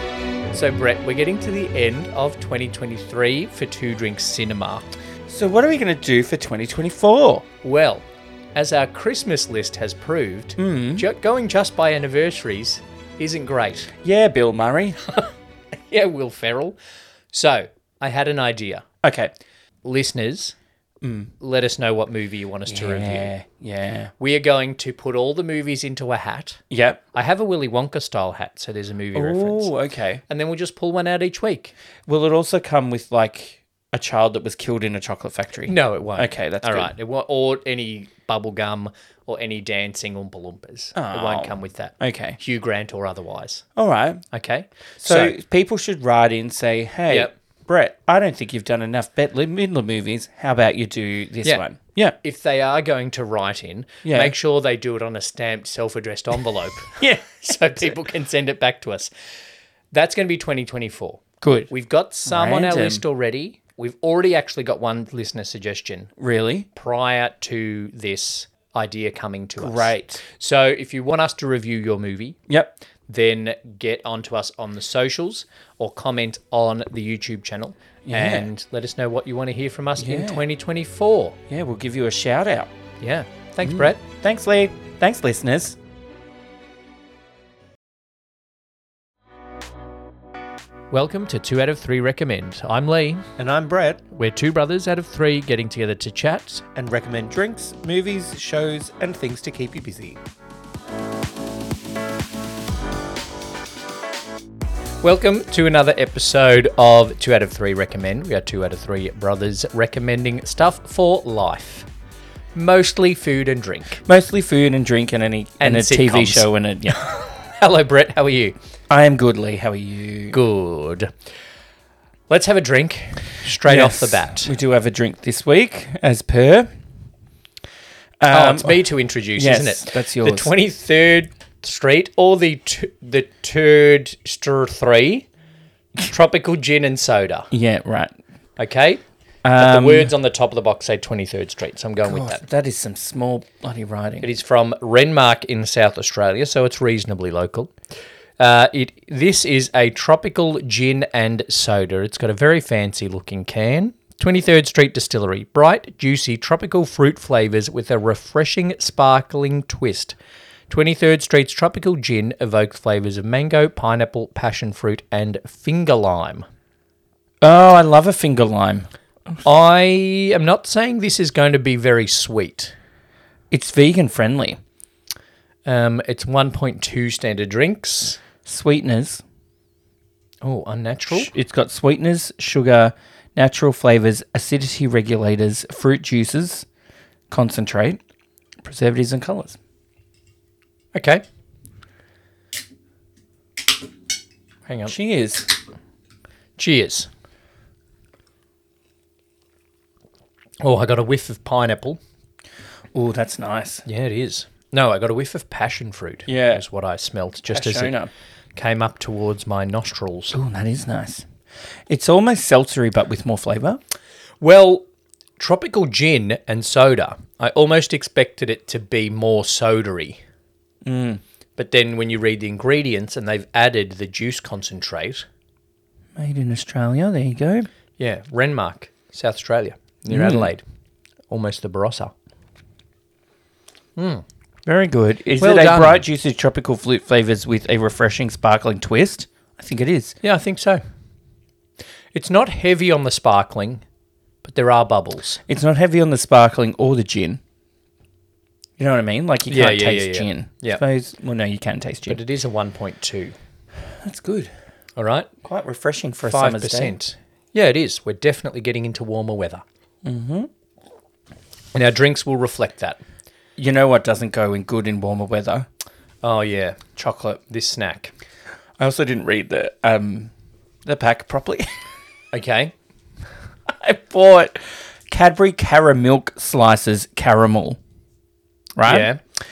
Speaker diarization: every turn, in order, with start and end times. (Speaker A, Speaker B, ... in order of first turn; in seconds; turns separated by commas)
Speaker A: 0.5-4.8, Speaker B: 5.3-7.4, Speaker A: 7.6-13.9, Speaker B: 10.6-11.0, Speaker B: 14.0-15.2, Speaker A: 15.9-16.8, Speaker A: 17.3-18.9, Speaker B: 19.0-19.3, Speaker A: 19.8-20.5, Speaker B: 21.0-21.3, Speaker A: 21.4-23.3, Speaker B: 22.7-24.1, Speaker A: 24.2-26.6, Speaker B: 26.7-27.0, Speaker A: 27.1-29.7, Speaker B: 29.1-30.2, Speaker A: 30.3-31.7, Speaker B: 32.1-36.9, Speaker A: 35.7-43.6, Speaker B: 41.0-42.4, Speaker B: 43.8-44.2, Speaker A: 44.3-45.4, Speaker B: 45.0-52.1, Speaker A: 52.2-59.1, Speaker B: 54.0-54.3, Speaker B: 57.0-57.9, Speaker A: 59.9-66.1, Speaker B: 61.4-61.7, Speaker B: 62.2-63.0, Speaker B: 66.2-66.7, Speaker A: 66.7-72.4, Speaker B: 69.6-70.2, Speaker B: 72.5-72.7, Speaker A: 73.1-81.4, Speaker B: 78.0-78.5, Speaker B: 80.0-80.4, Speaker B: 81.5-82.7, Speaker A: 83.0-84.0, Speaker B: 83.6-85.8, Speaker A: 90.9-93.3, Speaker B: 93.4-94.0, Speaker A: 94.1-96.7, Speaker B: 96.7-100.2, Speaker A: 105.0-111.9, Speaker A: 112.5-114.0, Speaker B: 114.0-117.0, Speaker A: 115.6-118.5, Speaker B: 118.9-120.3, Speaker A: 120.3-121.1, Speaker A: 122.3-124.5, Speaker B: 123.6-126.7, Speaker B: 128.2-130.5, Speaker A: 128.3-135.3, Speaker A: 136.0-137.5, Speaker B: 137.5-138.1, Speaker A: 138.6-139.0, Speaker B: 139.4-140.1, Speaker A: 139.6-142.4, Speaker B: 142.0-144.3, Speaker A: 144.2-147.7, Speaker A: 148.4-160.2, Speaker A: 160.7-166.4, Speaker B: 167.4-168.9, Speaker A: 169.4-172.7, Speaker B: 173.5-174.6, Speaker A: 175.7-178.2, Speaker B: 178.4-179.2, Speaker A: 180.4-181.3, Speaker B: 181.1-186.7, Speaker B: 187.3-188.0, Speaker B: 188.6-189.6, Speaker A: 190.9-191.2, Speaker A: 194.7-194.9, Speaker B: 194.9-195.5, Speaker A: 196.6-197.1, Speaker A: 200.6-202.0, Speaker B: 202.9-203.8, Speaker A: 203.8-207.9, Speaker B: 206.3-206.6, Speaker B: 207.5-208.1, Speaker A: 208.6-210.3, Speaker B: 210.3-211.2, Speaker B: 211.9-213.8, Speaker A: 214.4-214.8, Speaker A: 215.4-220.2, Speaker B: 220.8-221.2, Speaker A: 221.6-225.2, Speaker B: 226.2-227.7, Speaker A: 228.0-230.6, Speaker B: 230.1-230.5, Speaker A: 231.3-232.1, Speaker A: 233.9-234.2, Speaker B: 234.7-240.2, Speaker A: 235.4-236.0, Speaker A: 240.2-240.8, Speaker A: 242.1-243.8, Speaker A: 244.4-245.4, Speaker B: 245.5-247.4, Speaker B: 248.8-252.2, Speaker A: 249.5-250.8, Speaker A: 252.1-253.3, Speaker B: 254.0-254.5, Speaker A: 255.0-255.3, Speaker B: 255.4-256.9, Speaker A: 256.3-259.6, Speaker B: 260.0-260.5, Speaker A: 261.7-263.0, Speaker B: 263.6-265.7, Speaker A: 266.2-266.8, Speaker B: 266.9-267.4, Speaker A: 267.5-268.1, Speaker B: 268.8-270.3, Speaker B: 270.8-271.7, Speaker A: 272.3-272.7, Speaker B: 273.7-277.8, Speaker B: 278.8-279.1, Speaker A: 278.8-279.2